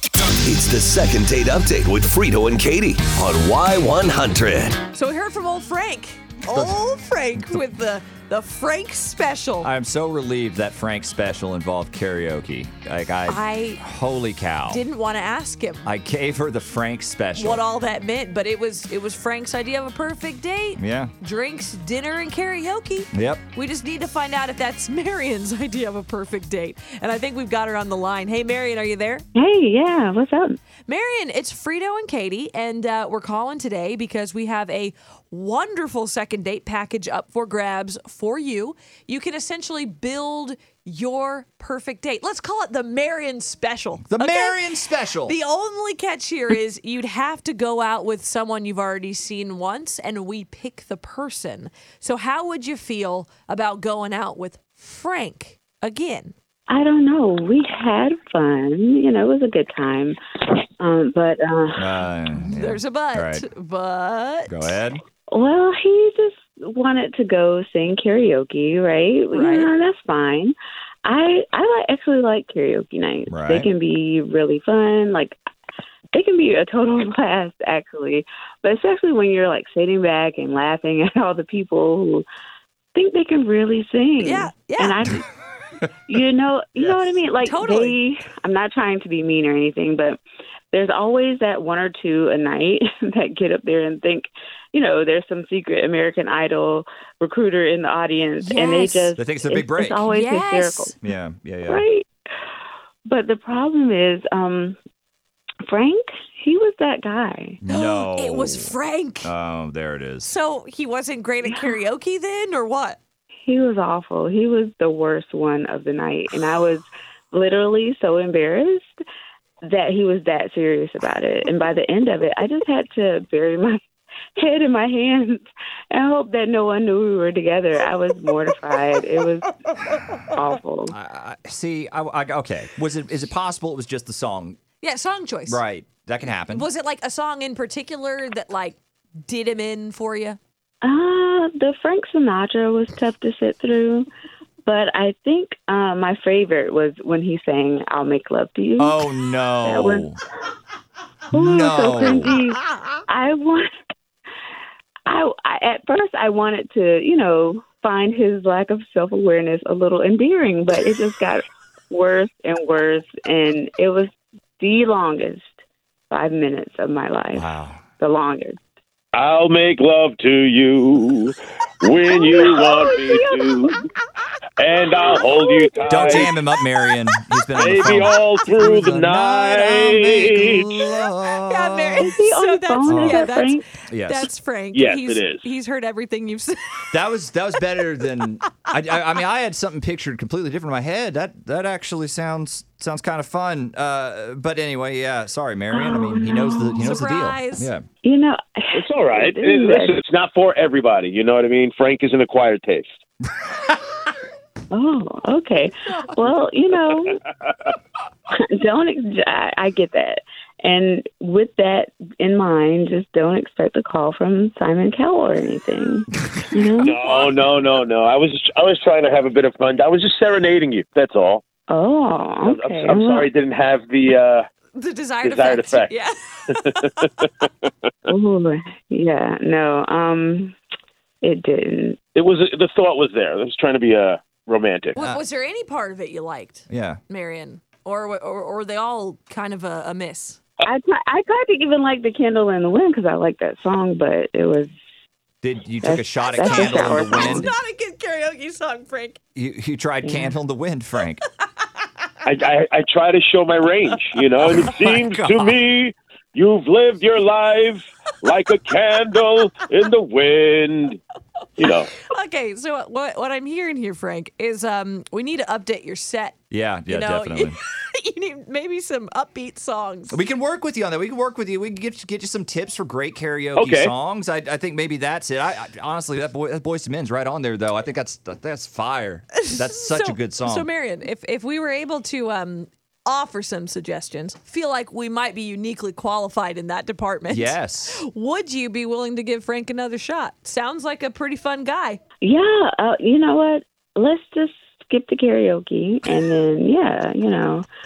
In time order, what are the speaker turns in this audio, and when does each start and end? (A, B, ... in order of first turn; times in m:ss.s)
0:00.4-0:04.8 A
0:04.9-0:09.7 B
0:06.5-0:06.8 C
0:07.3-0:07.6 C
0:09.6-0:14.8 C
0:13.3-0:13.8 B
0:14.7-0:15.9 B
0:15.8-0:17.6 C
0:17.4-0:29.2 B
0:20.8-0:21.1 C
0:23.1-0:23.4 C
0:29.3-0:30.6 D
0:30.8-0:56.3 B
0:44.1-0:45.4 C
0:56.7-1:00.2 D
1:00.8-1:01.9 D
1:01.8-1:03.4 C
1:02.3-1:04.6 B
1:04.5-1:05.0 C
1:05.3-1:10.5 D
1:09.3-1:09.7 B
1:11.0-1:15.4 D
1:13.3-1:13.7 C
1:16.1-1:22.2 D
1:22.9-1:25.2 D
1:24.2-1:25.0 B
1:26.1-1:30.2 D
1:26.8-1:27.0 C
1:27.4-1:28.0 B
1:30.7-1:41.0 D
1:38.4-1:39.1 B
1:39.2-1:40.0 C
1:40.1-1:40.9 B
1:41.0-1:41.8 C
1:41.7-1:42.1 D
1:43.0-1:44.8 D
1:45.7-1:47.6 D
1:47.6-1:50.3 C
1:47.7-1:49.3 B
1:50.2-1:53.0 B
1:51.4-1:51.8 D
1:53.4-1:58.8 D
1:59.6-2:03.8 D
2:04.4-2:09.6 D
2:10.2-2:10.9 D
2:10.9-2:14.6 C
2:14.8-2:15.6 B
2:15.5-2:16.6 C
2:16.5-2:20.4 B
2:20.8-2:24.1 D
2:24.6-2:29.0 D
2:28.8-2:30.2 C
2:29.6-2:30.2 D
2:31.3-2:32.4 C
2:31.3-2:33.7 D
2:35.1-2:45.5 D
2:46.1-2:48.6 D
2:47.3-2:47.8 C
2:49.1-2:53.8 E
2:52.1-2:53.7 D
2:54.6-2:56.3 E
2:54.7-2:56.3 D
2:55.9-3:02.2 C
2:57.5-3:00.9 E
3:01.3-3:06.9 B
3:02.0-3:03.6 D
3:02.8-3:03.3 C
3:03.9-3:04.3 C
3:04.7-3:05.5 E
3:06.9-3:17.8 C
3:15.7-3:17.0 D
3:16.8-3:17.7 B
3:18.0-3:20.0 D
3:18.7-3:23.0 E
3:24.7-3:27.2 D
3:27.1-3:27.7 E
3:28.3-3:37.0 D
3:36.8-3:41.4 E
3:41.7-3:43.3 D
3:42.4-3:44.5 E
3:44.7-3:47.3 B
3:45.2-3:45.9 E
3:46.5-3:47.7 E
3:48.1-3:50.6 D
3:51.2-3:52.0 D
3:52.1-3:55.0 E
3:55.0-4:00.4 B
3:56.7-3:57.0 C
4:00.6-4:04.7 D
4:05.4-4:07.5 C
4:05.8-4:07.5 D
4:06.4-4:09.2 B
4:09.3-4:11.2 C
4:10.0-4:10.3 D
4:12.2-4:21.0 E
4:14.4-4:15.6 C
4:21.6-4:21.9 E
4:21.6-4:26.4 B
4:26.5-4:27.6 C
4:26.9-4:30.2 B
4:30.1-4:40.7 C
4:33.6-4:33.9 E
4:39.5-4:52.0 B
4:47.3-4:48.0 C
4:52.2-4:57.6 D